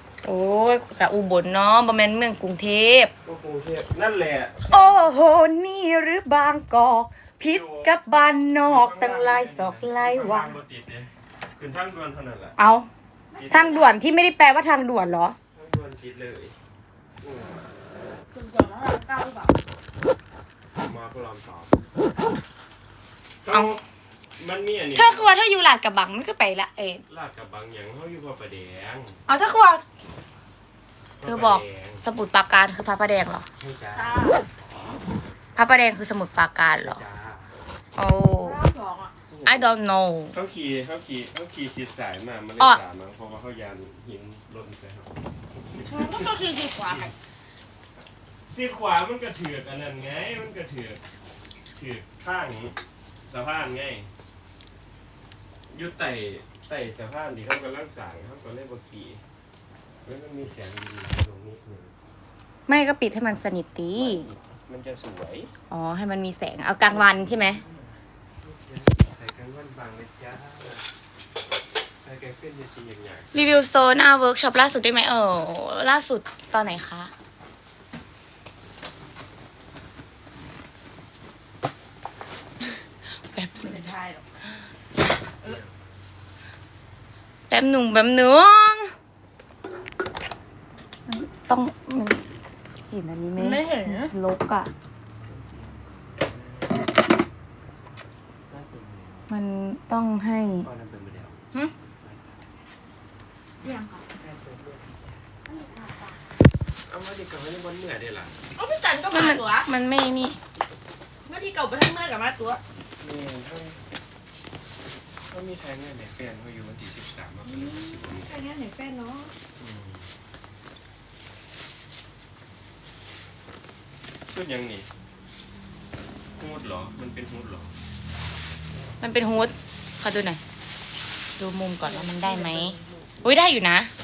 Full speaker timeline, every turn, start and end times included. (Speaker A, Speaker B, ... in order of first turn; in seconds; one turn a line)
Speaker A: 0.2-3.1
Speaker B: 3.2-4.9
Speaker A: 4.7-10.5
Speaker B: 7.5-12.5
Speaker A: 12.6-12.9
Speaker C: 13.3-14.0
Speaker B: 13.3-13.8
Speaker A: 13.5-15.3
Speaker B: 15.5-16.6
Speaker B: 17.2-17.6
Speaker C: 18.3-19.5
Speaker B: 20.8-21.9
Speaker B: 23.4-23.8
Speaker A: 23.5-23.8
Speaker B: 24.4-25.3
Speaker A: 24.9-27.0
Speaker B: 27.1-29.2
Speaker A: 29.3-29.8
Speaker B: 31.2-32.0
Speaker A: 31.2-33.5
Speaker B: 33.6-34.1
Speaker C: 33.9-34.4
Speaker A: 35.5-37.0
Speaker B: 36.8-37.5
Speaker A: 38.0-38.6
Speaker C: 38.4-39.1
Speaker B: 39.3-39.7
Speaker A: 39.4-40.3
Speaker B: 40.3-45.1
Speaker B: 45.7-46.3
Speaker C: 45.8-47.1
Speaker B: 48.5-51.0
Speaker B: 51.7-54.1
Speaker B: 55.7-59.2
Speaker B: 60.0-61.9
Speaker A: 62.7-64.2
Speaker B: 64.0-65.5
Speaker A: 65.7-67.6
Speaker B: 66.9-70.8
Speaker B: 72.0-73.5
Speaker A: 73.3-77.1
Speaker A: 83.2-83.8
Speaker C: 83.6-84.3
Speaker B: 85.4-85.8
Speaker A: 87.5-88.9
Speaker A: 91.1-92.2
Speaker A: 92.9-94.7
Speaker C: 93.3-94.1
Speaker B: 95.2-96.9
Speaker B: 98.5-99.3
Speaker A: 99.3-100.7
Speaker B: 100.6-101.4
Speaker B: 102.0-102.6
Speaker C: 103.6-104.0
Speaker B: 104.1-105.2
Speaker C: 105.5-106.2
Speaker B: 106.9-108.4
Speaker C: 108.5-109.7
Speaker A: 109.1-110.4
Speaker C: 111.2-112.6
Speaker B: 113.0-113.8
Speaker B: 115.3-118.3
Speaker C: 117.4-119.3
Speaker B: 119.6-120.1
Speaker B: 124.2-124.9
Speaker B: 126.4-127.7
Speaker A: 129.0-130.4
Speaker A: 131.4-133.9
Speaker C: 131.8-133.2